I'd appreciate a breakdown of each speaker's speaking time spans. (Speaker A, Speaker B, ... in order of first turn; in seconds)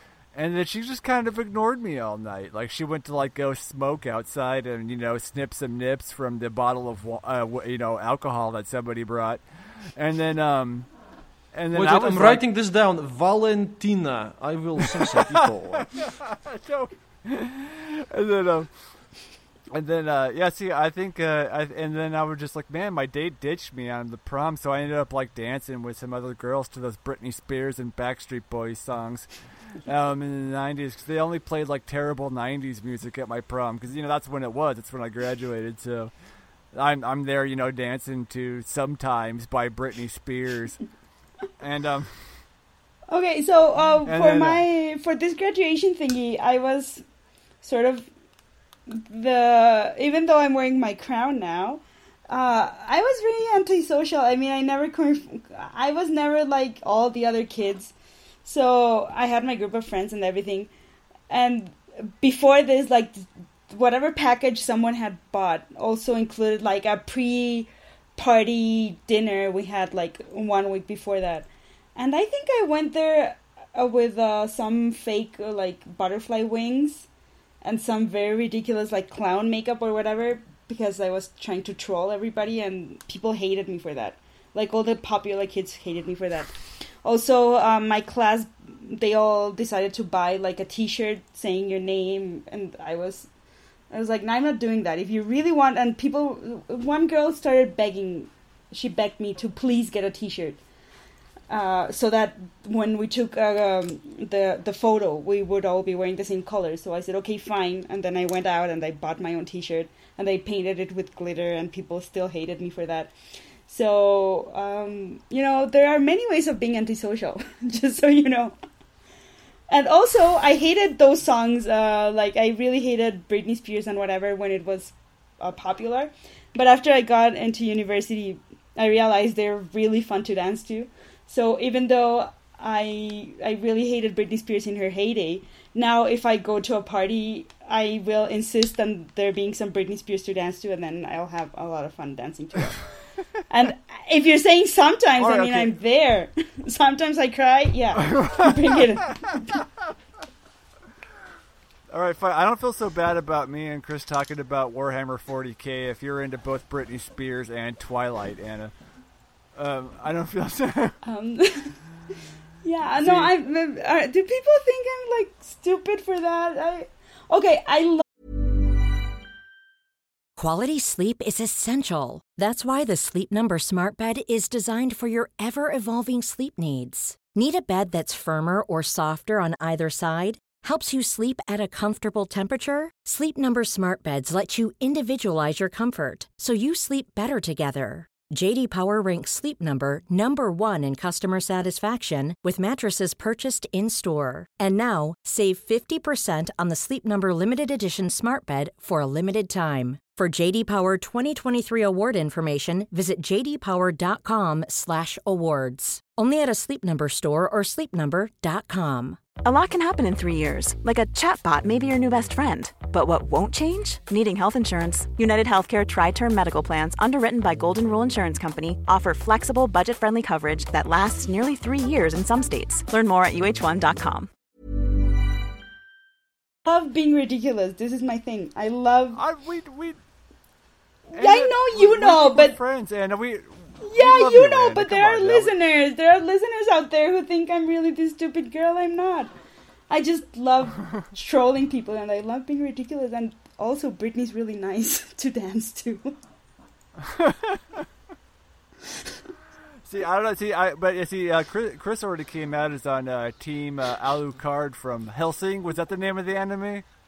Speaker A: 0.3-9.4, 9.9-10.9, 11.5-12.4, 15.3-18.7, 19.7-29.3, 29.8-36.1, 36.7-40.8, 41.6-42.4, 44.0-44.6, 145.2-145.7, 148.0-148.6, 151.9-158.7, 159.6-160.9, 163.0-163.3, 229.2-230.0, 231.1-235.5, 247.0-247.8, 249.8-256.9
Speaker B: 11.7-15.9
Speaker C: 43.1-47.0, 47.6-48.1, 48.9-57.9, 58.5-60.7, 61.3-77.1, 77.6-93.3, 93.9-100.6, 101.5-113.1, 113.7-118.6, 119.7-142.8, 143.5-149.6, 161.0-161.8, 162.6-168.0, 226.7-229.2, 231.2-232.6, 233.8-239.3, 239.9-246.2
Speaker D: 170.4-209.2
Speaker E: 209.4-224.3